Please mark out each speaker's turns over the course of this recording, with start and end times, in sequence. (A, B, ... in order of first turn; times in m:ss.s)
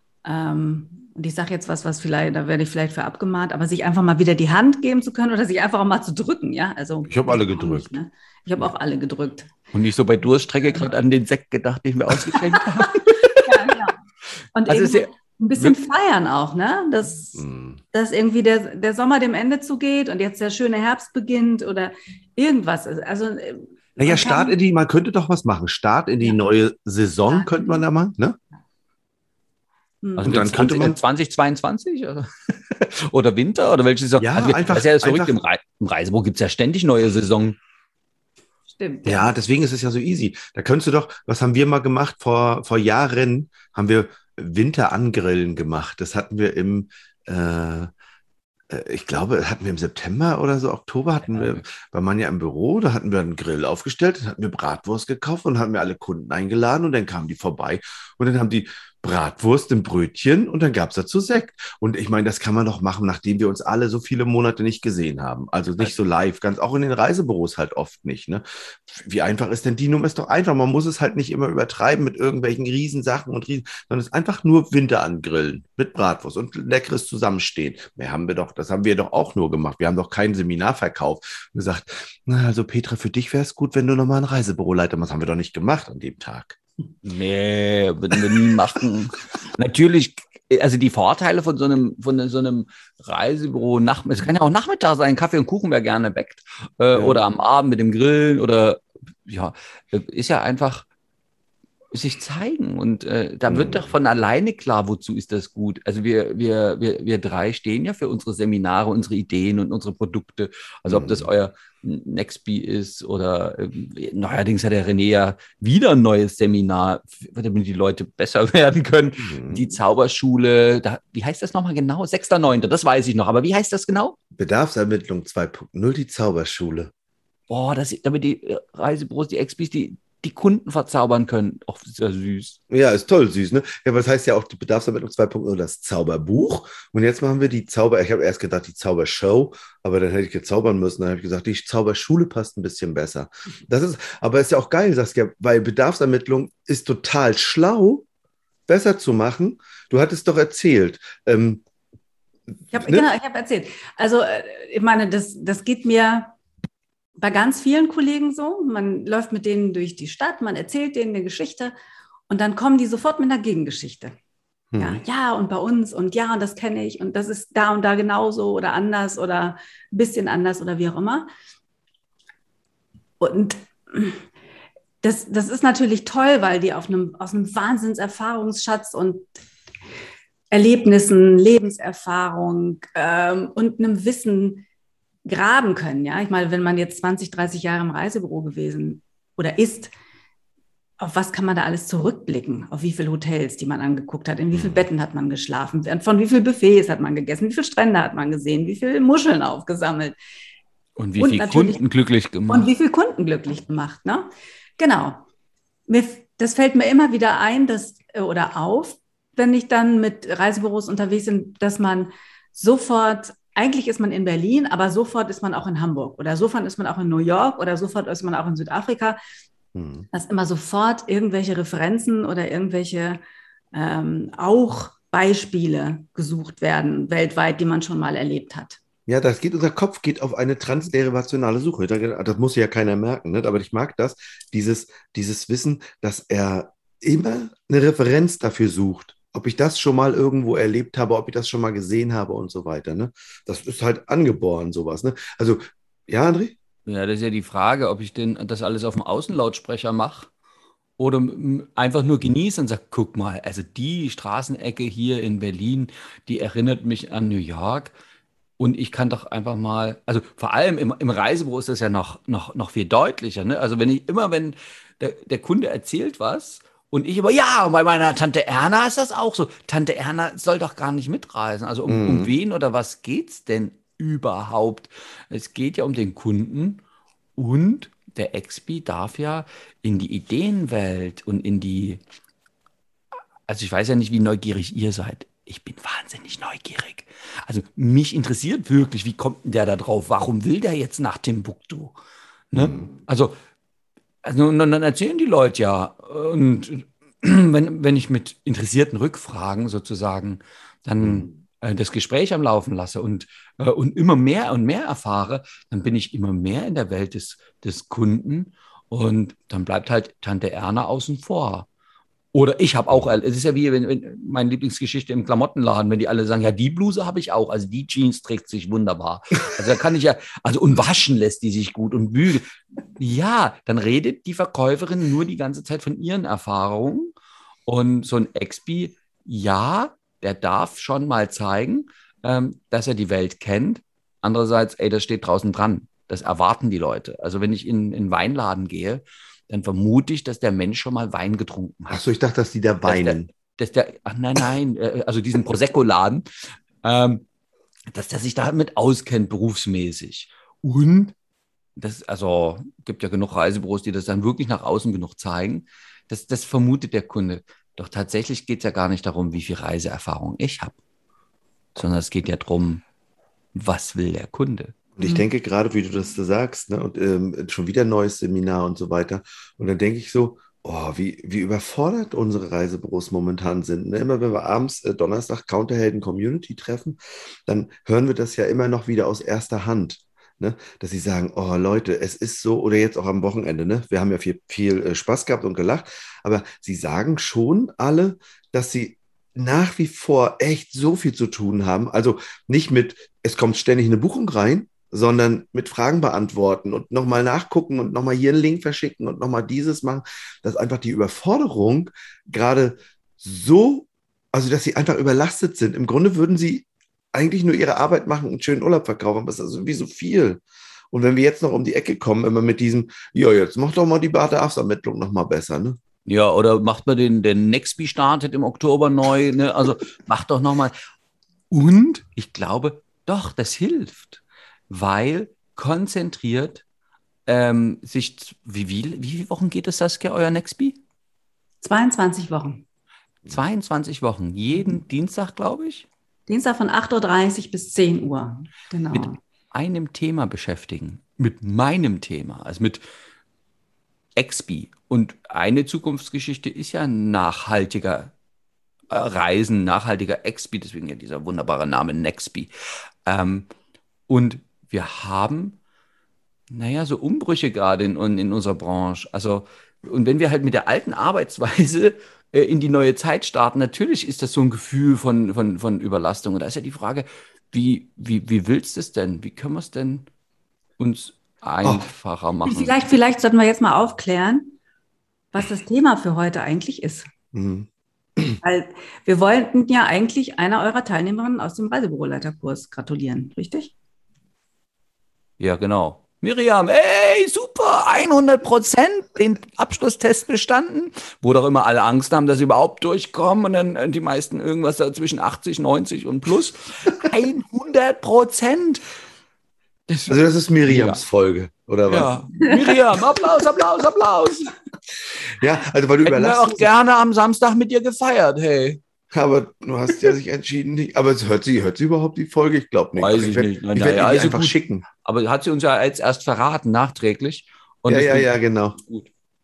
0:00.2-0:09.6 A
0:07.1-0:07.9 B
0:09.7-0:13.8 C
0:13.4-0:14.0 A
0:14.6-0:24.6 A
0:14.7-0:15.8 C
0:17.4-0:17.8 B
0:24.0-0:28.4 B
0:27.3-0:27.8 A
0:30.0-0:30.5 A
0:30.2-0:37.6 C
0:30.2-0:31.0 B
0:34.2-0:35.4 B
0:38.7-0:39.4 A
0:39.1-0:47.9 B
0:48.7-1:26.6 B
0:51.3-0:51.6 C
1:27.0-1:40.9 C
1:36.9-1:37.2 B
1:41.9-2:04.2 C
1:43.5-1:43.9 B
1:50.9-1:51.3 B
1:59.2-1:59.7 B
2:04.4-2:06.9 B
2:07.5-2:12.6 C
2:12.7-2:28.0 B
2:28.7-2:31.6 B
2:32.7-2:33.1 B
2:32.7-2:36.4 A
2:37.2-2:41.7 A
2:42.3-2:44.2 A
2:44.7-2:45.0 B
2:44.8-2:51.3 A
2:53.2-2:54.2 A
2:55.0-2:59.3 A
3:00.5-3:04.6 A
3:05.2-3:09.9 A
3:11.0-3:20.2 A
3:14.5-3:14.8 B
3:21.0-3:22.7 C
3:21.2-3:21.8 A
3:22.5-3:25.2 A
3:25.9-3:39.2 A
3:39.8-3:40.1 B
3:40.1-3:43.2 A
3:43.7-3:48.8 A
3:49.1-4:06.6 B
4:06.9-4:10.3 C
4:11.0-4:17.9 C
4:18.6-4:36.8 C
4:31.9-4:32.3 B
4:37.4-4:42.0 C
4:43.5-4:52.0 C
4:52.5-4:53.4 C
4:52.5-4:52.9 B
4:54.2-5:11.7 C
5:01.0-5:01.3 B
5:12.3-5:27.1 C
5:27.7-5:42.0 C
5:41.9-5:43.3 B
5:42.8-5:47.2 C
5:47.9-5:51.1 C
5:51.8-6:00.8 C
6:01.8-6:02.8 C
6:03.5-6:04.8 C
6:05.0-6:50.4 B
6:50.9-6:55.8 B
6:56.1-7:00.8 C
7:01.5-7:06.6 C
7:07.3-7:10.8 C
7:11.6-7:12.6 A
7:13.3-7:15.9 C
7:16.3-7:19.2 A
7:18.9-7:22.8 C
7:24.2-7:28.1 C
7:28.9-7:32.5 C
7:33.1-7:33.5 C
7:34.1-7:35.6 C
7:36.5-7:50.1 C
7:50.8-7:52.8 C
7:52.4-7:54.6 A
7:55.3-7:57.1 A
7:57.3-7:58.4 B
7:58.4-8:03.7 A
8:05.4-8:18.8 C
8:19.9-8:20.2 C
8:20.1-8:22.5 B
8:20.7-8:21.0 C
8:21.9-8:24.5 C
8:25.1-8:26.7 B
8:26.0-8:28.8 C
8:29.1-8:34.8 B
8:33.0-8:39.1 C
8:37.9-8:38.8 B